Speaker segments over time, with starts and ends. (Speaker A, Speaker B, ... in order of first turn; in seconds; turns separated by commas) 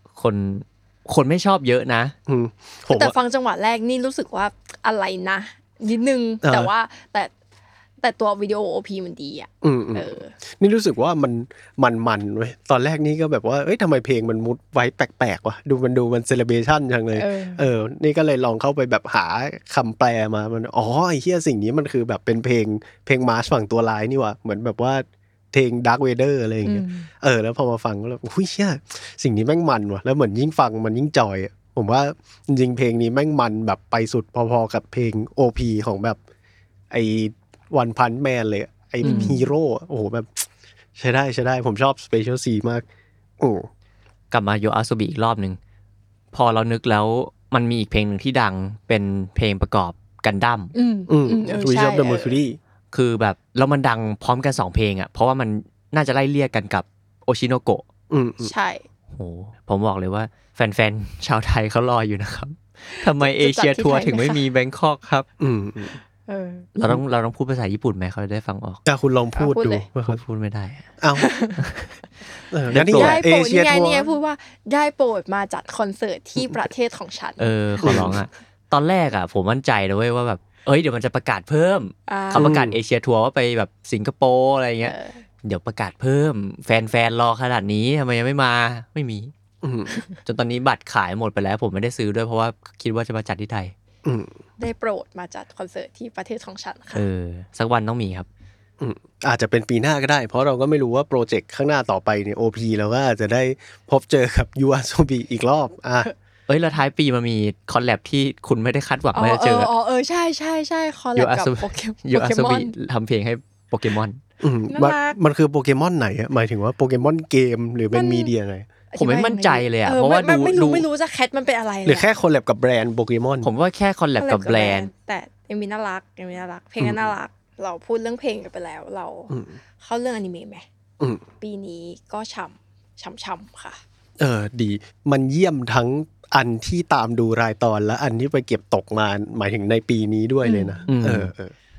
Speaker A: 0.1-2.1, Speaker B: 2.3-3.1, Speaker C: 2.9-7.3, Speaker B: 6.4-6.7, Speaker C: 8.0-10.3, Speaker B: 9.6-36.2, Speaker C: 17.1-17.6, Speaker C: 26.6-27.1, Speaker B: 36.9-42.8, Speaker A: 39.0-39.4, Speaker C: 39.0-39.4, Speaker B: 43.4-43.7, Speaker A: 44.3-45.6, Speaker A: 46.3-50.7, Speaker C: 50.7-52.4, Speaker B: 51.1-52.6, Speaker A: 52.9-57.9, Speaker B: 58.1-58.5, Speaker C: 58.4-58.8, Speaker A: 59.1-65.2, Speaker C: 62.9-64.4, Speaker B: 65.4-66.0, Speaker C: 66.3-66.7, Speaker A: 66.8-68.8, Speaker B: 68.8-70.2, Speaker C: 69.4-69.8, Speaker A: 70.1-70.8, Speaker B: 71.0-71.2, Speaker C: 71.2-71.6, Speaker A: 71.6-71.9, Speaker B: 72.5-74.1, Speaker A: 72.7-73.2, Speaker C: 72.9-78.0, Speaker A: 77.4-89.3, Speaker B: 77.8-78.2, Speaker C: 82.1-82.5, Speaker B: 82.3-82.8, Speaker C: 84.8-85.2, Speaker B: 89.6-89.9, Speaker A: 90.2-93.7, Speaker B: 94.0-94.3, Speaker C: 94.6-97.0, Speaker A: 96.9-98.3, Speaker B: 98.8-106.1, Speaker A: 106.5-109.7, Speaker C: 109.1-112.7, Speaker A: 111.2-114.2, Speaker B: 114.4-118.7, Speaker C: 114.7-115.2, Speaker C: 117.9-118.3, Speaker C: 118.9-122.1, Speaker A: 119.0-120.8, Speaker B: 121.8-123.5, Speaker A: 123.4-124.9, Speaker C: 124.2-130.6, Speaker B: 126.8-127.1, Speaker B: 129.3-129.6, Speaker C: 131.4-133.8, Speaker B: 134.2-141.5, Speaker C: 140.4-140.8, Speaker A: 140.9-141.3